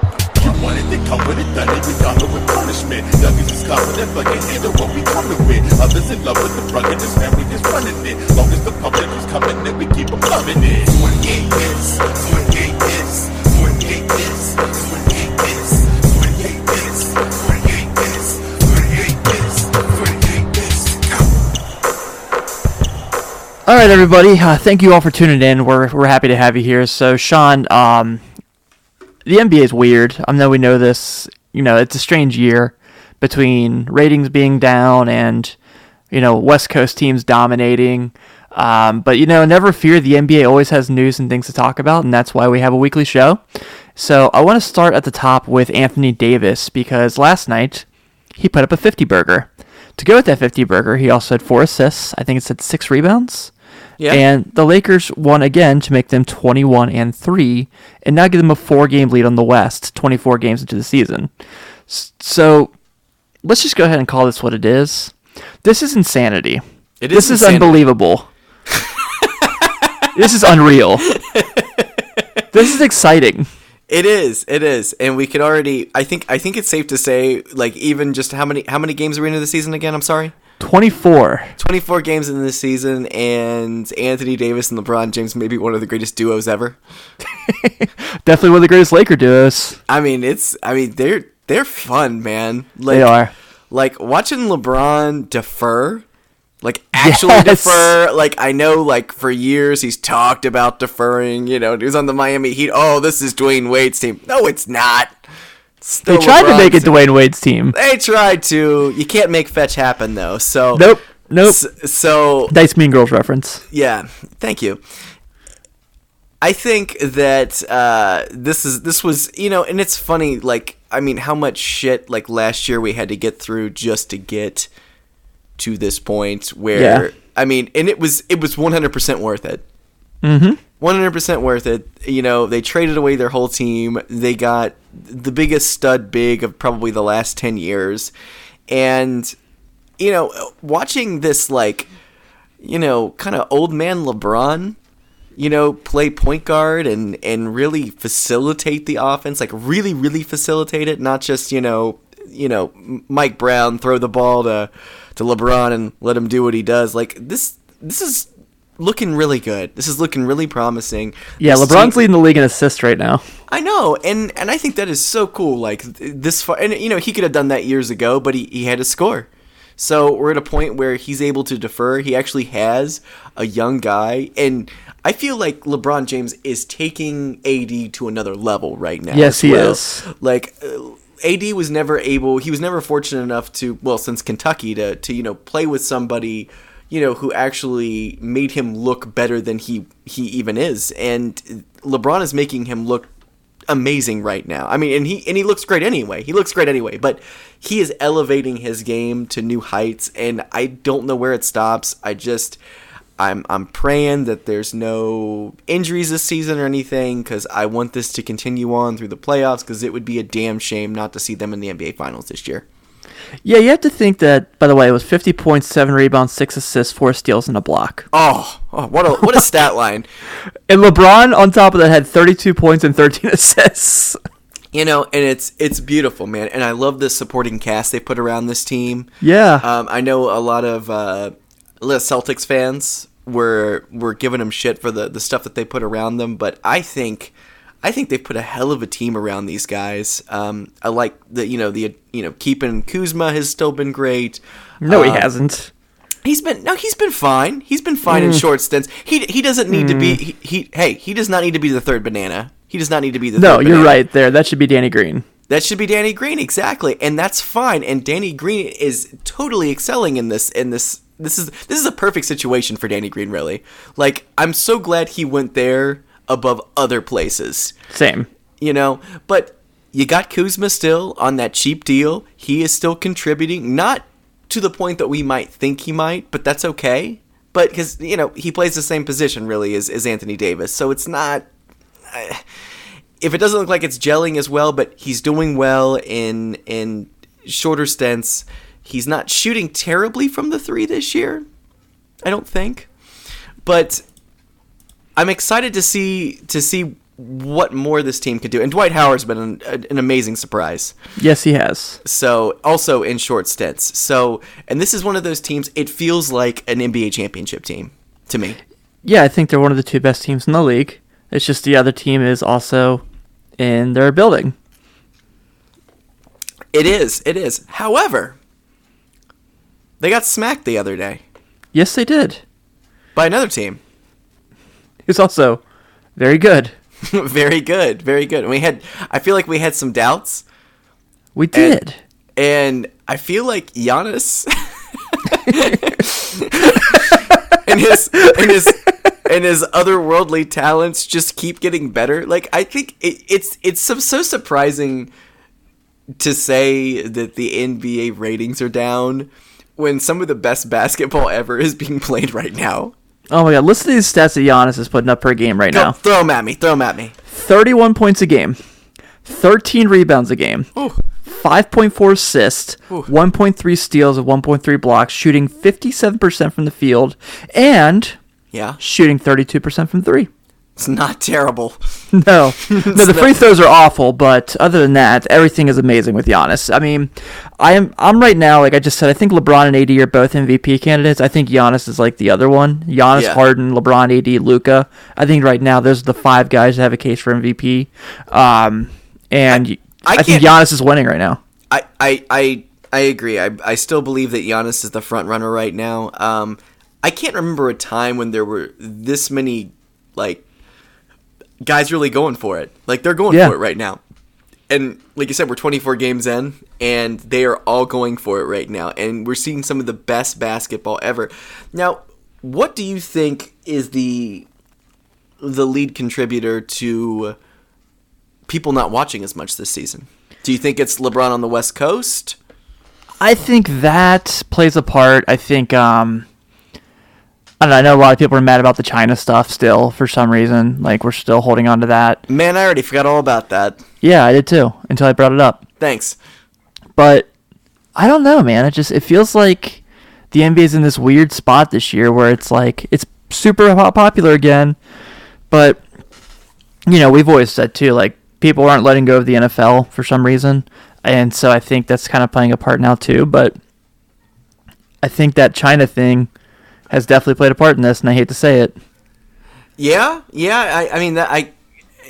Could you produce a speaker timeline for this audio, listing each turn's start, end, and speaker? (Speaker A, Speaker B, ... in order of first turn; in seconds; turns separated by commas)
Speaker A: 0.4-21.2, Speaker B: 23.7-28.2, Speaker B: 29.2-35.5, Speaker B: 36.1-43.4, Speaker B: 44.0-53.5, Speaker C: 54.0-54.2, Speaker B: 54.1-61.3, Speaker B: 61.9-62.7, Speaker B: 63.4-65.1, Speaker B: 65.6-68.3, Speaker C: 67.0-67.8, Speaker C: 68.7-70.1, Speaker B: 70.1-71.1, Speaker C: 71.0-72.4, Speaker B: 72.5-73.5, Speaker C: 73.9-80.3, Speaker B: 80.6-81.5, Speaker C: 81.6-86.8, Speaker B: 87.4-89.8, Speaker C: 89.9-93.1, Speaker B: 92.9-93.3, Speaker C: 93.7-96.0, Speaker C: 96.6-105.2, Speaker B: 97.0-97.9, Speaker C: 105.8-106.9, Speaker B: 106.0-107.8, Speaker C: 107.7-110.9, Speaker B: 110.8-111.6, Speaker C: 111.4-112.5, Speaker B: 112.5-113.6, Speaker C: 113.7-114.8, Speaker C: 116.4-124.7, Speaker C: 125.6-129.6, Speaker B: 126.7-127.1, Speaker B: 130.2-130.6, Speaker C: 130.8-138.1, Speaker C: 138.7-139.3, Speaker C: 140.0-141.9, Speaker C: 142.6-144.8, Speaker C: 145.4-162.1, Speaker B: 161.4-163.2, Speaker C: 163.5-193.1, Speaker B: 179.1-180.1, Speaker C: 193.7-202.6, Speaker C: 203.2-212.7, Speaker B: 213.4-218.1, Speaker C: 218.1-220.1, Speaker B: 220.7-224.2, Speaker C: 224.7-229.1, Speaker B: 229.2-229.7, Speaker C: 229.6-245.3, Speaker B: 244.8-245.7, Speaker C: 246.2-253.9, Speaker B: 248.1-248.4, Speaker B: 249.7-250.2, Speaker B: 253.4-255.2, Speaker C: 255.5-267.7, Speaker B: 267.9-268.3, Speaker C: 268.6-281.5, Speaker C: 282.1-282.4, Speaker C: 283.2-291.4, Speaker C: 292.2-292.9, Speaker C: 293.6-294.0, Speaker C: 295.1-300.9, Speaker B: 301.2-302.0, Speaker C: 302.0-308.6, Speaker B: 309.0-313.0, Speaker B: 313.6-314.5, Speaker C: 316.7-318.4, Speaker C: 320.0-321.2, Speaker B: 321.7-322.4, Speaker C: 323.1-323.8, Speaker B: 325.1-325.6, Speaker B: 326.2-326.7, Speaker C: 327.0-330.4, Speaker B: 331.3-332.0, Speaker C: 331.5-331.8, Speaker C: 332.4-345.1, Speaker C: 346.2-352.9, Speaker B: 353.3-355.9, Speaker C: 355.7-357.1, Speaker B: 357.3-358.6, Speaker B: 359.2-360.7, Speaker B: 361.2-368.2, Speaker C: 368.5-368.8, Speaker B: 368.8-370.3, Speaker C: 370.8-371.8, Speaker B: 372.1-391.4, Speaker C: 372.6-373.3, Speaker C: 383.1-383.4, Speaker C: 389.5-390.5, Speaker C: 391.7-400.4, Speaker C: 401.6-404.0, Speaker C: 404.7-414.5, Speaker C: 415.4-417.4, Speaker C: 418.5-422.4, Speaker B: 423.2-426.2, Speaker B: 427.6-432.2, Speaker C: 432.3-433.8, Speaker B: 434.0-435.6, Speaker C: 435.8-436.2, Speaker B: 437.0-437.3, Speaker B: 437.9-439.8, Speaker B: 440.3-444.8, Speaker B: 445.5-445.8, Speaker B: 446.9-453.6, Speaker B: 455.0-456.3, Speaker B: 456.9-458.8, Speaker C: 459.8-461.5